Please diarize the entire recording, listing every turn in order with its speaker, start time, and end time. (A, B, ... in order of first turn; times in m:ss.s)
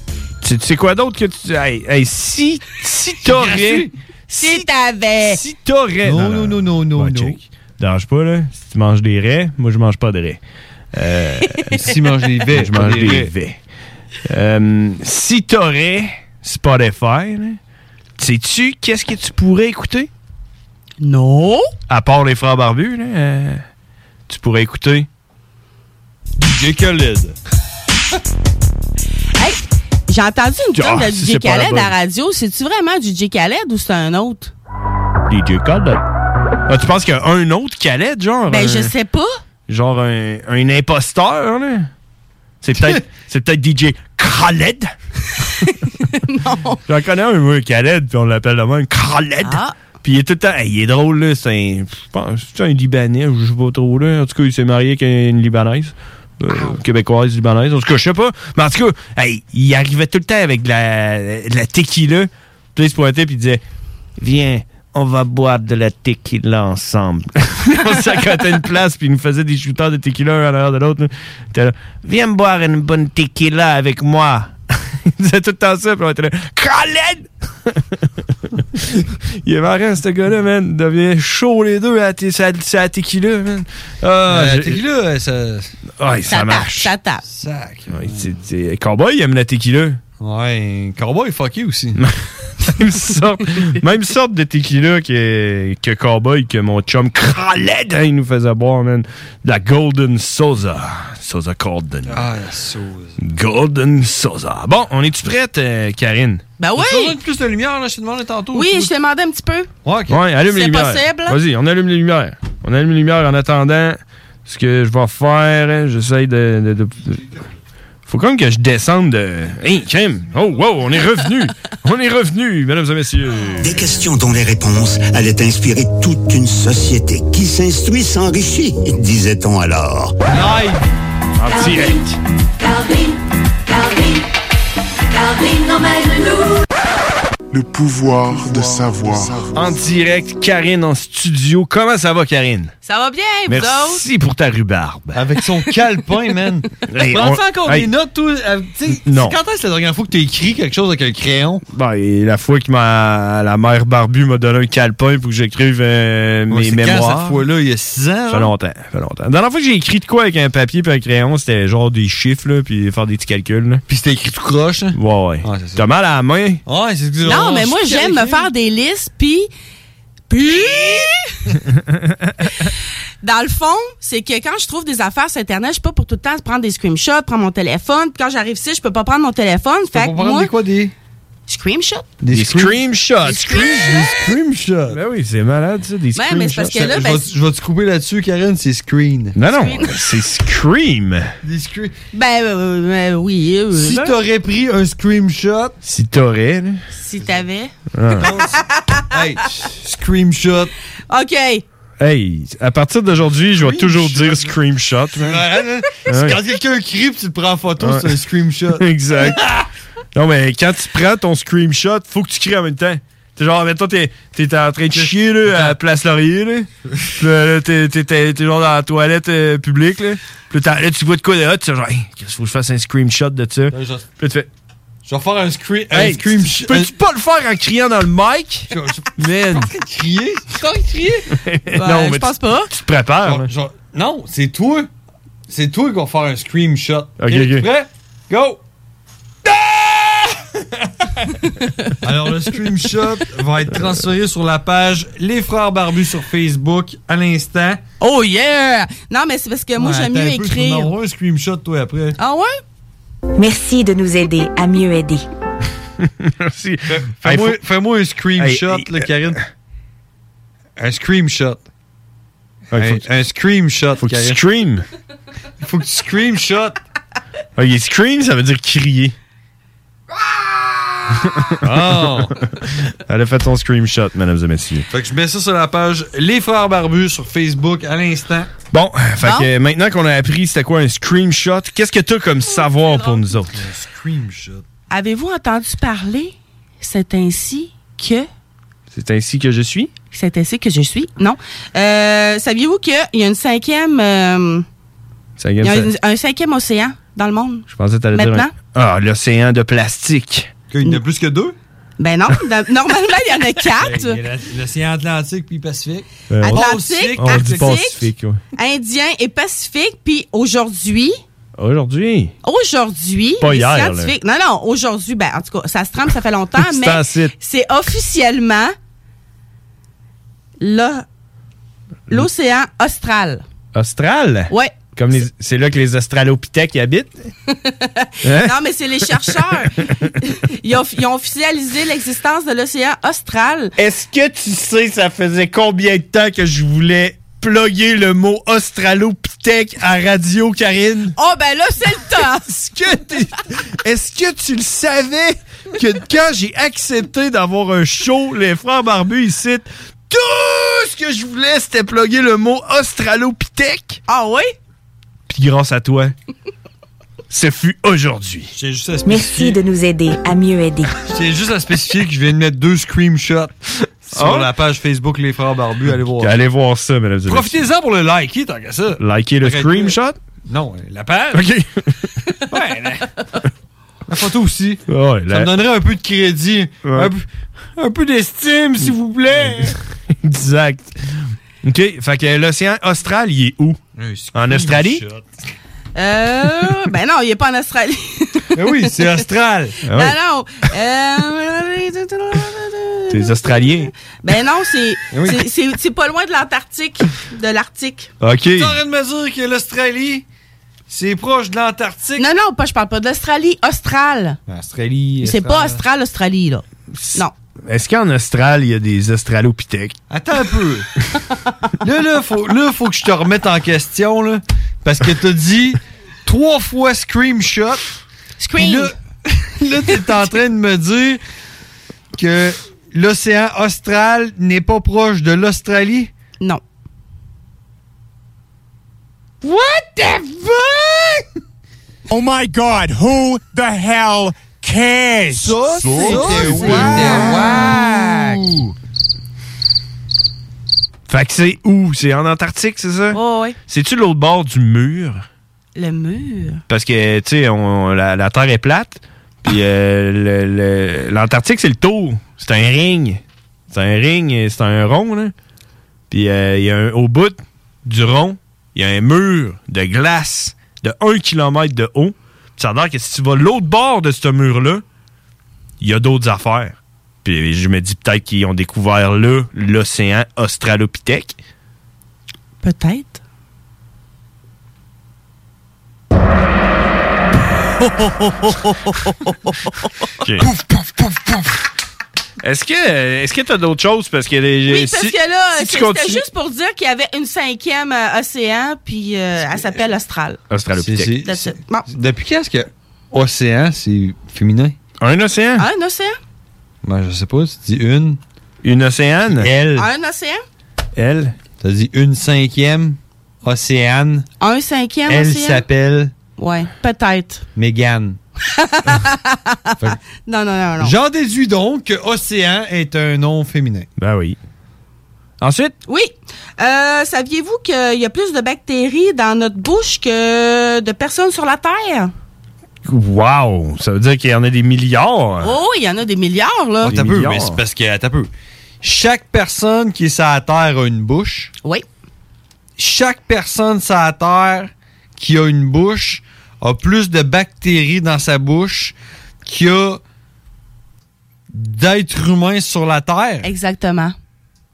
0:00.4-0:04.6 A
0:03.2-0:03.9 B
0:04.3-0:05.4 C
0:05.2-0:10.4 A
0:06.0-0:07.4 B
0:10.9-0:11.8 A
0:11.7-0:13.3 B
0:12.5-0:13.6 A
0:14.2-0:17.6 A
0:18.2-0:20.1 A
0:21.0-0:21.6 C
0:21.9-0:23.6 A
0:24.3-0:25.1 A
0:26.4-0:27.4 B
0:29.4-0:34.5 C
0:30.8-0:31.9 A
0:35.3-0:36.0 A
0:36.7-0:38.9 A
0:38.5-0:39.3 C
0:39.7-0:41.9 A
0:42.6-0:44.9 A
0:45.7-0:46.8 C
0:46.9-1:03.6 A
0:49.4-0:49.7 C
1:04.2-1:18.0 A
1:19.4-1:24.8 A
1:24.3-1:25.7 B
1:26.0-1:26.9 A
1:26.3-1:27.2 C
1:27.2-1:28.3 B
1:27.9-1:30.0 A
1:30.2-1:32.0 B
1:32.0-1:42.3 A
1:42.1-1:43.2 B
1:43.2-1:46.4 A
1:46.6-1:47.2 C
1:46.8-1:48.9 B
1:48.5-1:49.7 C
1:49.8-1:50.2 B
1:50.1-1:57.2 A
1:50.5-1:51.4 C
1:58.1-2:03.8 A
2:03.7-2:10.1 D
2:10.3-2:10.8 B
2:11.4-2:12.2 A
2:19.5-2:22.7 A
2:22.8-2:24.0 C
2:23.5-2:25.2 A
2:25.1-2:31.6 B
2:26.9-2:27.9 A
2:29.0-2:29.4 A
2:31.7-2:37.4 A
2:36.5-2:38.5 B
2:38.3-2:43.8 A
2:43.9-2:45.8 B
2:44.9-2:46.6 A
2:46.6-2:48.5 B
2:47.2-2:49.5 C
2:50.3-2:51.2 C
2:53.2-3:00.5 C
2:59.9-3:00.9 B
3:01.5-3:02.1 C
3:02.2-3:05.0 B
3:02.3-3:03.9 A
3:03.2-3:04.1 C
3:04.9-3:06.8 A
3:06.1-3:07.3 C
3:06.7-3:09.4 B
3:09.4-3:11.3 A
3:09.5-3:10.0 C
3:11.4-3:12.0 B
3:12.1-3:14.1 C
3:13.7-3:15.7 B
3:15.8-3:16.8 A
3:16.9-3:17.7 C
3:17.9-3:18.3 A
3:18.2-3:20.7 B
3:18.4-3:19.1 C
3:21.1-3:21.6 C
3:22.0-3:25.5 A
3:23.6-3:24.5 B
3:25.2-3:29.6 B
3:26.0-3:26.4 A
3:27.8-3:28.2 A
3:28.8-3:29.5 A
3:30.1-3:44.5 A
3:34.9-3:35.8 B
3:43.7-3:44.0 B
3:45.0-3:46.9 B
3:45.9-3:49.7 A
3:48.7-3:50.7 B
3:50.6-3:52.7 C
3:51.4-3:53.5 A
3:53.2-3:54.9 B
3:55.5-3:58.6 B
3:57.2-3:57.7 A
4:02.0-4:07.8 B
4:08.0-4:10.9 C
4:09.8-4:12.2 B
4:12.2-4:12.6 C
4:13.4-4:15.2 E
4:16.0-4:17.6 A
4:16.9-4:19.4 B
4:18.4-4:19.1 A
4:20.8-4:21.6 B
4:22.7-4:23.0 A
4:22.7-4:24.4 B
4:24.0-4:24.8 A
4:25.6-4:26.8 B
4:27.6-4:29.1 A
4:31.1-4:32.3 A
4:31.6-4:32.4 B
4:33.1-4:34.9 A
4:34.9-4:38.5 B
4:38.7-4:43.6 A
4:39.2-4:39.5 C
4:42.5-4:43.1 C
4:43.5-4:44.6 B
4:44.9-4:48.3 C
4:48.9-4:49.9 A
4:50.1-4:54.6 C
4:55.4-4:55.9 A
4:55.6-4:58.5 C
4:57.7-5:00.5 A
5:00.7-5:01.5 B
5:02.0-5:04.2 C
5:03.7-5:07.7 B
5:06.3-5:08.4 A
5:06.5-5:08.0 C
5:08.6-5:11.2 C
5:11.6-5:12.3 A
5:12.4-5:18.7 C
5:13.4-5:14.1 A
5:16.6-5:17.3 A
5:20.6-5:21.0 C
5:22.1-5:23.4 C
5:23.7-5:27.3 A
5:24.5-5:24.7 C
5:27.5-5:33.7 C
5:28.2-5:28.5 A
5:33.8-5:41.1 A
5:41.2-5:42.4 C
5:42.2-5:54.0 A
5:54.1-5:54.5 C
5:55.3-5:56.1 A
5:57.3-5:58.5 A
5:58.5-5:59.6 B
5:59.1-6:00.9 E
6:01.0-6:03.6 B
6:04.1-6:06.3 B
6:04.1-6:04.5 A
6:06.2-6:07.6 A
6:07.3-6:10.0 B
6:09.0-6:10.2 A
6:10.5-6:11.4 B
6:11.3-6:12.0 A
6:12.5-6:13.0 B
6:14.1-6:17.2 B
6:14.9-6:15.5 A
6:16.8-6:17.1 A
6:17.8-6:19.8 B
6:19.3-6:23.8 A
6:24.0-6:25.2 B
6:24.3-6:25.0 A
6:26.0-6:28.6 C
6:28.5-6:29.8 B
6:29.9-6:30.2 A
6:29.9-6:38.1 C
6:33.1-6:33.9 A
6:35.1-6:35.4 B
6:38.2-6:38.8 A
6:38.6-6:40.2 B
6:40.9-6:42.2 B
6:42.2-6:44.4 C
6:44.5-6:45.8 B
6:45.2-6:46.6 C
6:46.9-6:50.0 A
6:50.1-6:50.9 B
6:51.8-6:57.8 B
6:58.4-6:58.9 C
6:58.6-7:01.2 B
7:02.2-7:06.1 B
7:12.1-7:16.2 F
7:15.3-7:18.6 B
7:15.9-7:17.8 C
7:16.2-7:17.3 A
7:17.0-7:17.4 F
7:21.1-7:25.2 A
7:23.1-7:23.6 C
7:25.8-7:26.6 C
7:26.7-7:35.3 A
7:36.1-7:44.8 A
7:45.8-7:51.4 A
7:52.6-7:53.2 C
7:57.8-7:59.9 C
8:00.2-8:00.5 A
8:00.8-8:01.1 B
8:02.4-8:06.2 A
8:04.7-8:10.4 C
8:10.5-8:11.2 A
8:10.8-8:14.8 B
8:11.2-8:11.9 C
8:15.0-8:15.7 A
8:15.6-8:16.2 C
8:16.8-8:18.2 B
8:18.6-8:19.5 A
8:19.3-8:19.9 B
8:19.8-8:20.4 C
8:21.0-8:21.3 A
8:21.6-8:24.3 B
8:24.4-8:25.6 C
8:25.1-8:26.1 B
8:26.4-8:27.4 C
8:27.6-8:28.2 B
8:28.5-8:30.9 C
8:30.8-8:33.9 B
8:34.0-8:34.4 A
8:35.4-8:35.7 A
8:35.9-8:42.1 C
8:42.8-8:45.6 A
8:45.4-8:46.9 C
8:46.8-8:48.3 B
8:46.8-8:47.6 A
8:48.8-8:51.5 B
8:52.8-8:58.9 B
8:59.4-9:00.0 B
9:01.5-9:03.5 B
9:03.4-9:04.1 C